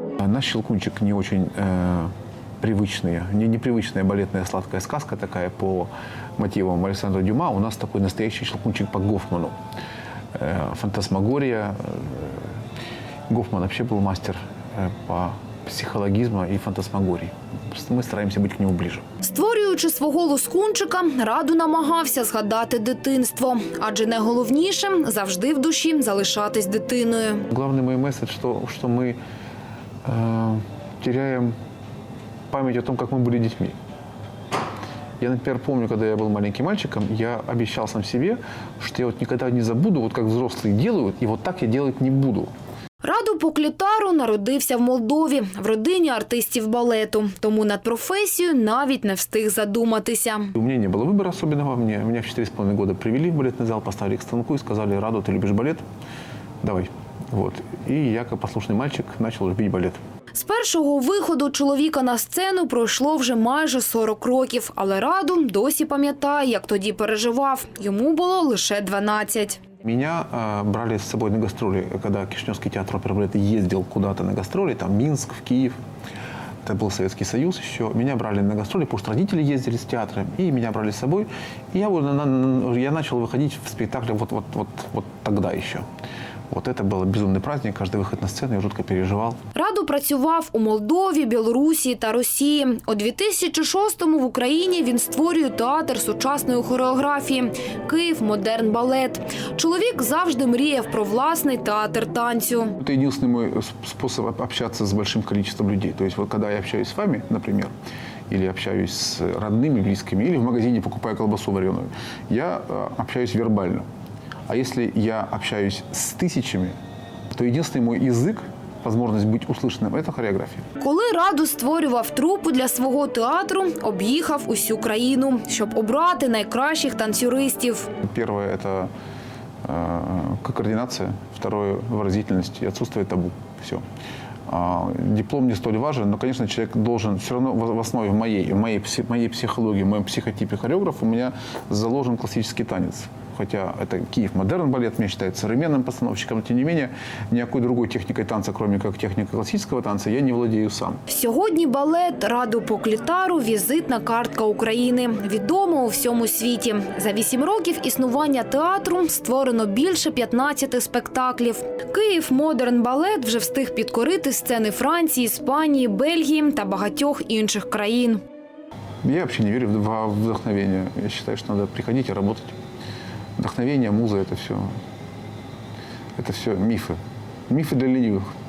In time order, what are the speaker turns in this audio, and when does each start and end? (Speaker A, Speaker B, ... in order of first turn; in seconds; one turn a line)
Speaker A: 0.2-9.5
Speaker A: 10.3-12.5
Speaker A: 13.3-19.0
Speaker B: 19.2-27.5
Speaker A: 27.5-29.2
Speaker A: 30.0-31.5
Speaker A: 32.5-33.8
Speaker A: 35.2-42.5
Speaker B: 43.0-50.5
Speaker A: 50.5-55.8
Speaker A: 56.6-60.0
Speaker B: 60.3-69.6
Speaker A: 69.8-75.8
Speaker A: 76.6-85.8
Speaker A: 86.5-89.4
Speaker B: 89.5-102.8
Speaker A: 102.8-107.7
Speaker A: 108.3-113.9
Speaker A: 114.5-116.8
Speaker A: 117.3-120.6
Speaker B: 120.8-127.9
Speaker A: 128.0-128.9
Speaker A: 129.6-133.8
Speaker A: 134.5-151.0
Speaker B: 151.1-168.2
Speaker A: 169.0-172.6
Speaker A: 173.4-174.8
Speaker A: 176.2-178.3